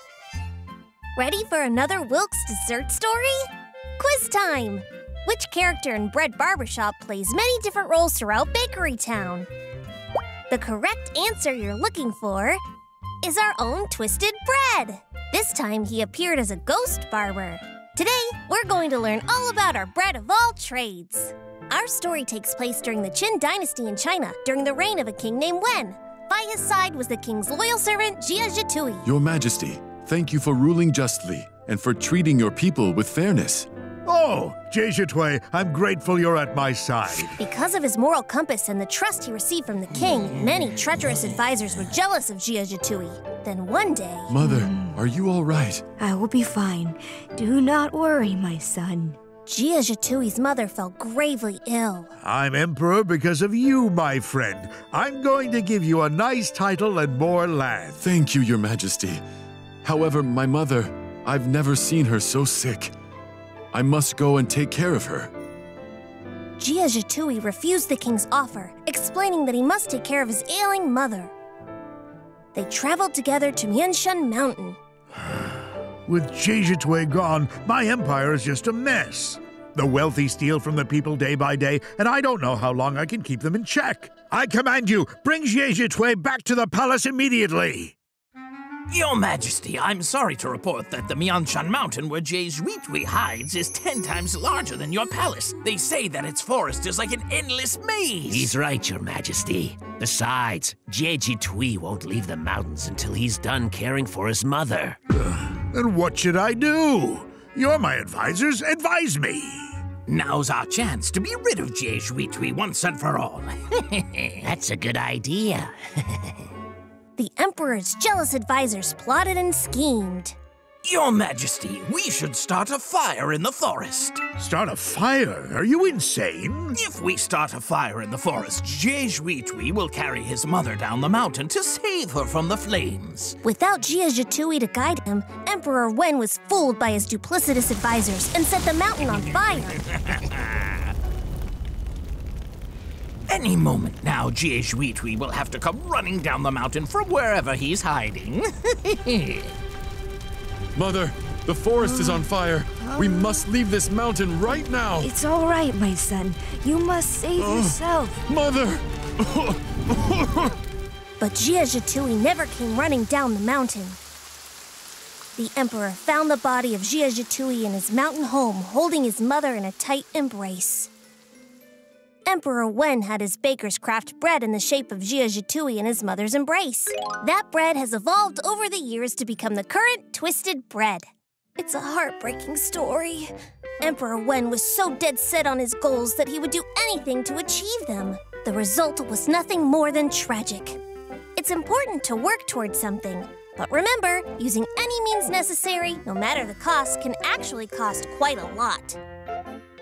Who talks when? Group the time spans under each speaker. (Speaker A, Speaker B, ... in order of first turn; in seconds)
Speaker A: 1.2-3.5, 4.0-9.5, 10.5-12.6, 13.2-29.1, 37.4-44.3, 49.5-52.1, 66.6-71.3, 72.5-74.8, 117.2-120.4, 133.4-139.8, 161.2-164.0, 165.4-170.9, 172.3-181.1, 181.6-190.8, 191.4-199.0
Speaker B: 29.1-33.7, 44.3-45.8, 58.0-59.2, 59.8-62.9, 63.7-65.3, 150.7-155.1, 157.4-160.5
Speaker C: 34.1-37.4, 52.2-58.0, 76.1-88.0, 105.3-109.8, 124.4-126.8
Speaker D: 44.4-44.9, 46.0-49.2, 155.0-158.2
Speaker E: 88.9-98.5, 110.1-114.5, 120.8-124.2, 126.7-133.4, 139.9-140.7, 143.3-149.5
Speaker F: 98.3-105.0, 114.4-116.2